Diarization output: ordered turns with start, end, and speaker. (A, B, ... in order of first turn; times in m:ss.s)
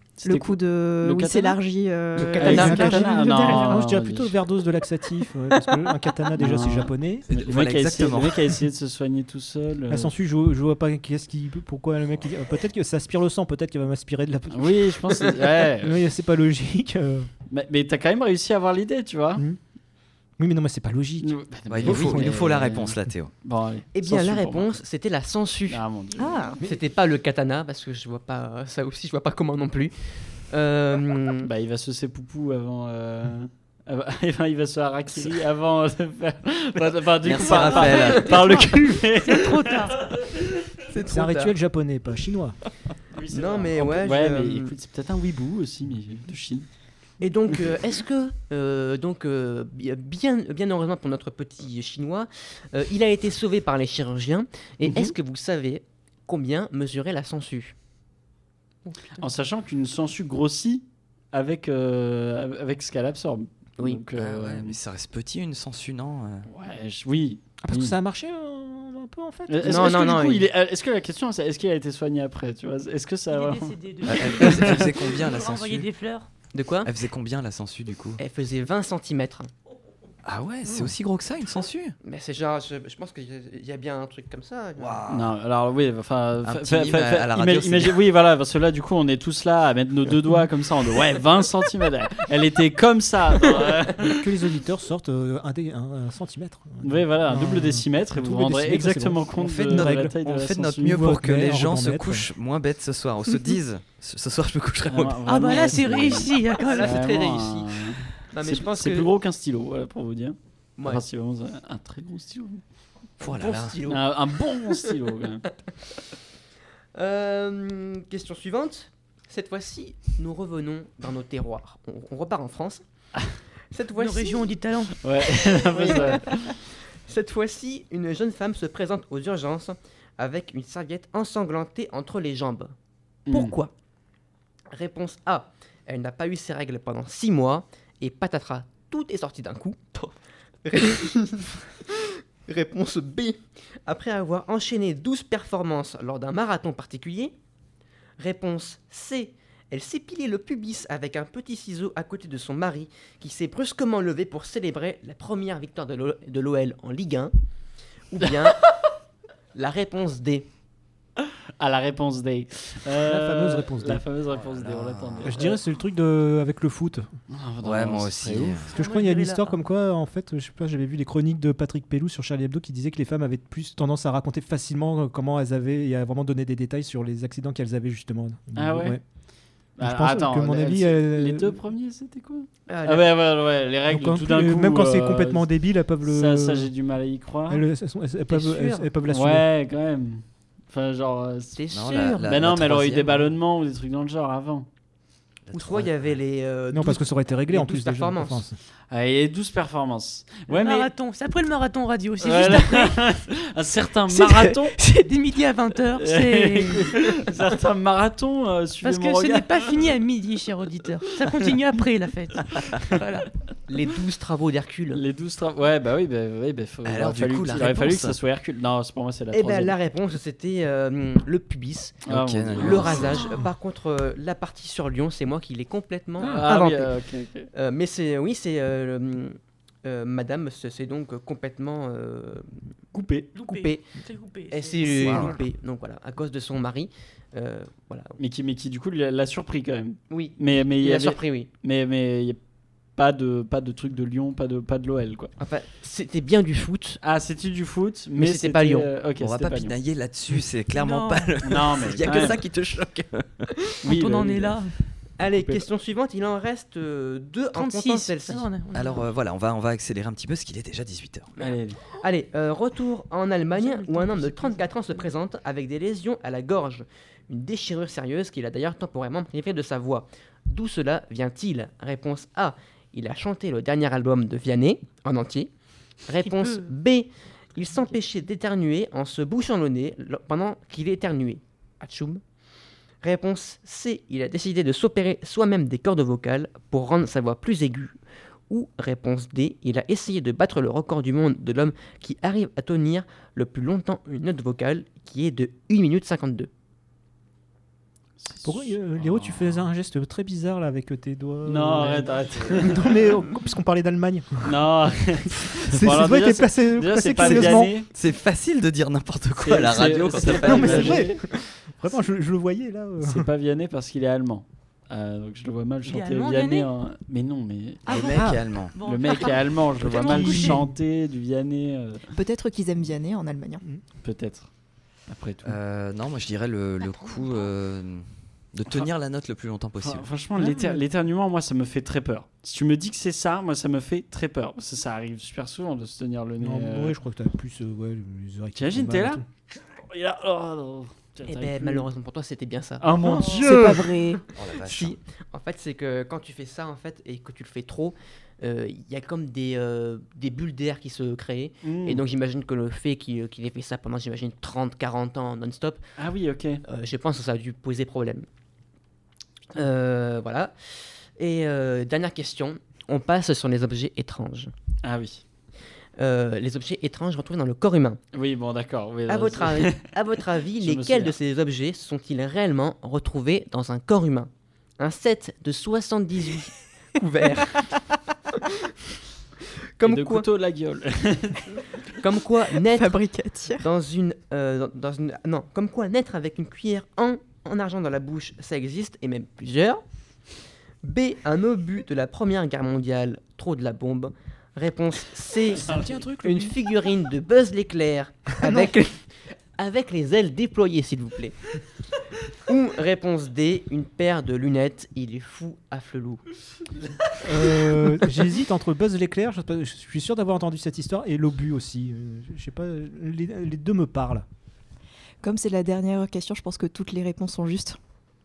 0:00.2-0:01.6 A
0:00.2-0:03.8 B
0:02.2-0:03.0 C
0:02.4-0:04.4 A
0:02.5-0:07.3 D
0:06.4-0:10.2 A
0:07.3-0:08.5 E
0:09.9-0:15.0 D
0:14.5-0:16.0 A
0:15.8-0:17.3 D
0:17.5-0:19.4 A
0:20.4-0:22.6 D
0:21.2-0:24.8 A
0:21.7-0:23.3 E
0:23.9-0:25.8 C
0:25.7-0:26.5 A
0:26.2-0:26.6 B
0:26.6-0:29.9 C
0:30.5-0:31.5 C
0:31.4-0:40.4 A
0:37.2-0:38.3 E
0:37.4-0:38.6 F
0:39.2-0:40.0 F
0:40.9-0:41.5 C
0:41.0-0:42.6 D
0:43.1-0:46.7 A
0:43.3-0:44.7 C
0:47.2-0:57.7 C
0:54.8-0:55.1 A
0:59.1-1:04.8 A
1:04.1-1:06.4 E
1:06.4-1:08.0 A
1:07.6-1:09.9 D
1:09.5-1:14.8 A
1:09.6-1:10.4 C
1:13.3-1:16.3 F
1:14.1-1:15.9 E
1:16.5-1:16.9 C
1:16.8-1:18.2 E
1:18.2-1:19.5 C
1:20.2-1:21.9 E
1:22.0-1:25.1 C
1:24.8-1:25.3 E
1:25.1-1:34.2 A
1:26.4-1:28.0 E
1:34.0-1:40.2 D
1:36.8-1:41.1 A
1:39.4-1:45.6 E
1:40.8-1:42.3 D
1:44.8-1:52.6 A
1:45.2-1:47.0 F
1:46.5-1:47.7 C
1:48.3-1:49.1 C
1:50.8-1:51.0 C
1:53.2-1:53.8 E
1:53.2-1:54.0 C
1:53.8-1:55.4 A
1:56.9-2:02.8 C
2:03.7-2:04.6 C
2:04.0-2:04.9 F
2:04.9-2:06.6 A
2:05.6-2:06.4 C
2:07.1-2:12.7 C
2:13.3-2:13.6 A
2:13.3-2:13.7 C
2:14.7-2:20.1 C
2:20.6-2:27.3 C
2:28.2-2:37.3 C
2:38.1-2:38.6 C
2:38.2-2:38.9 A
2:39.5-2:40.5 C
2:41.2-2:45.6 A
2:43.0-2:44.0 D
2:44.3-2:45.3 E
2:45.2-2:47.1 D
2:47.3-2:48.7 A
2:47.6-2:48.7 E
2:48.7-2:59.0 D
2:48.7-2:49.6 F
2:58.5-2:59.0 A
2:59.8-3:07.7 A
2:59.8-3:01.6 D
3:02.7-3:03.2 C
3:03.9-3:06.7 D
3:07.5-3:09.5 D
3:08.3-3:08.9 C
3:09.0-3:11.6 A
3:11.6-3:12.5 C
3:11.7-3:13.3 E
3:12.2-3:14.7 A
3:15.4-3:16.2 E
3:15.5-3:18.5 C
3:16.7-3:18.6 D
3:18.9-3:20.9 A
3:20.5-3:23.0 F
3:22.2-3:24.8 A
3:24.1-3:24.6 C
3:24.7-3:27.0 F
3:25.9-3:29.9 A
3:28.8-3:33.3 F
3:33.7-3:35.0 C
3:34.9-3:39.8 A
3:36.8-3:38.2 E
3:39.3-3:42.0 C
3:42.0-3:42.9 A
3:42.1-3:43.4 E
3:42.6-3:46.9 C
3:46.2-3:47.5 A
3:47.5-3:52.5 C
3:52.9-3:53.3 A
3:53.4-3:55.3 F
3:53.4-3:53.9 C
3:54.5-3:58.1 C
3:54.9-3:55.4 E
3:58.2-4:02.4 A
4:00.1-4:01.5 C
4:03.0-4:05.3 A
4:05.4-4:07.0 C
4:07.0-4:09.8 A
4:08.1-4:08.9 C
4:09.2-4:13.7 E
4:10.7-4:11.3 F
4:11.4-4:12.4 A
4:13.8-4:14.6 A
4:13.9-4:14.7 F
4:15.2-4:18.5 C
4:15.3-4:15.6 A
4:17.5-4:19.1 F
4:18.7-4:21.3 E
4:21.4-4:35.5 C
4:21.4-4:21.8 A
4:23.5-4:25.0 F
4:36.1-4:42.2 C
4:36.2-4:36.7 F
4:43.0-4:47.9 C
4:48.5-4:56.5 C
4:58.2-4:59.7 A
4:58.4-5:04.6 D
5:01.4-5:03.0 A
5:04.4-5:07.9 A
5:05.7-5:07.7 D
5:07.2-5:11.0 E
5:09.4-5:11.2 A
5:10.3-5:13.3 D
5:13.0-5:18.0 A
5:15.8-5:16.7 F
5:17.8-5:18.8 E
5:17.9-5:20.6 F
5:18.8-5:22.1 A
5:20.0-5:20.7 D
5:22.1-5:23.6 B
5:24.0-5:24.5 A
5:25.1-5:25.6 A
5:25.4-5:30.1 E
5:28.7-5:28.9 A
5:29.8-5:37.0 A
5:30.4-5:30.8 D
5:36.4-5:39.2 D
5:38.5-5:41.9 A
5:41.3-5:43.8 C
5:42.8-5:43.6 A
5:43.0-5:44.2 B
5:44.3-5:45.0 E
5:44.3-5:55.8 C
5:51.6-5:52.0 A
5:56.0-5:56.6 A
5:56.7-5:58.2 C
5:59.5-6:00.5 C
6:01.2-6:04.5 C
6:04.8-6:05.2 A
6:06.0-6:08.0 C
6:08.1-6:11.2 A
6:09.1-6:17.7 C
6:19.8-6:20.3 C
6:19.8-6:21.6 A
6:22.0-6:23.0 C
6:22.7-6:23.6 B
6:23.6-6:29.8 C
6:30.8-6:41.4 C
6:35.5-6:36.0 A
6:35.5-6:36.6 D
6:42.4-6:46.2 C
6:47.2-6:54.2 D
6:55.2-6:57.8 B